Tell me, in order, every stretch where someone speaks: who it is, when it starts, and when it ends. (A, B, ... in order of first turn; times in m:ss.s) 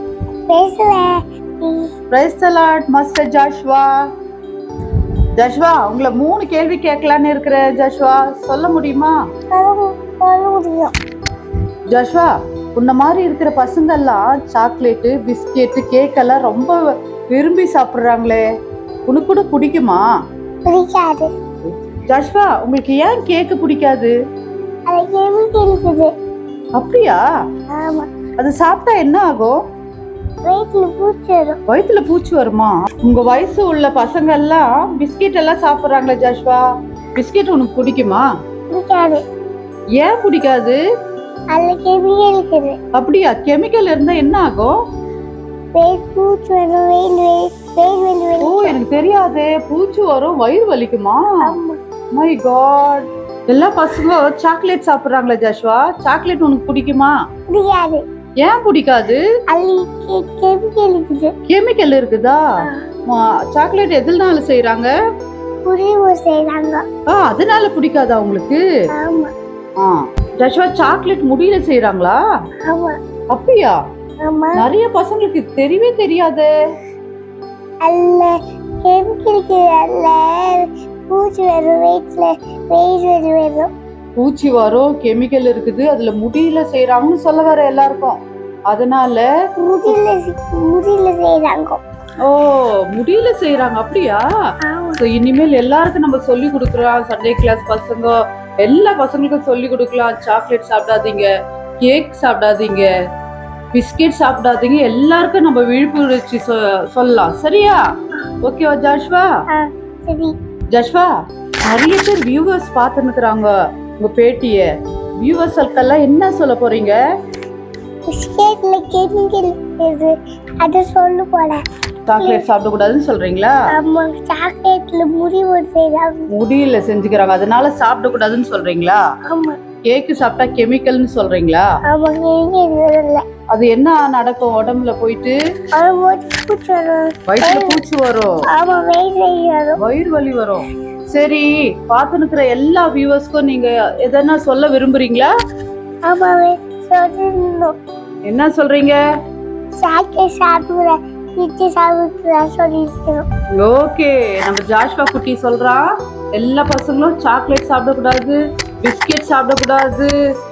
0:00.5-0:01.9 A
0:02.1-0:03.9 B
0:05.4-0:09.2 B
0:09.5-0:10.9 A
0:11.9-0:16.8 B
0:17.3-0:18.4 B
0:19.1-0:20.0 B
0:20.6-0:21.3 A
0:21.7-0:24.1 B
0:24.9-0:26.1 A
0:26.8-0:27.2 B
0:27.7-0:28.1 A
0:28.4-0:29.6 B
0:30.5-0:31.6 A
0:31.7-0:36.6 B
0:37.2-0:38.2 B
0:38.7-0:39.2 A
0:40.0-0:40.8 B
0:41.5-0:42.8 A
0:43.0-0:44.7 B
0:45.8-0:48.8 A
0:48.4-0:51.4 B
0:51.4-0:51.8 A
0:52.2-0:57.1 B
0:57.5-0:58.0 A
0:58.4-0:59.2 B
0:59.5-1:01.3 A
1:01.5-1:02.4 B
1:03.1-1:04.9 B
1:05.6-1:06.8 A
1:07.1-1:08.6 B
1:09.0-1:09.3 A
1:09.8-1:12.2 B
1:12.6-1:13.0 A
1:13.3-1:13.8 B
1:14.2-1:14.6 A
1:14.6-1:16.5 B
1:17.8-1:23.7 A
1:24.2-1:28.2 B
1:28.7-1:29.3 B
1:29.6-1:31.8 A
1:32.2-1:34.2 B
1:34.7-1:35.0 A
1:35.0-1:38.1 B
1:38.6-1:41.3 B
1:41.8-1:42.9 B
1:43.7-1:47.8 B
1:48.4-1:49.3 B
1:49.5-1:50.4 A
1:50.7-1:51.1 B
1:51.7-1:54.7 B
1:55.2-1:57.0 B
1:58.1-2:01.6 A
2:02.1-2:03.6 B
2:02.2-2:02.4 A
2:03.7-2:06.3 A
2:06.3-2:09.0 B
2:09.3-2:09.6 A
2:09.9-2:11.6 B
2:11.9-2:13.2 A
2:13.5-2:15.4 B
2:15.7-2:17.8 A
2:17.3-2:18.3 B
2:18.5-2:19.8 A
2:19.8-2:25.3 B
2:26.1-2:27.7 A
2:28.3-2:29.0 B
2:29.8-2:33.3 A
2:33.6-2:35.8 B
2:36.4-2:40.1 B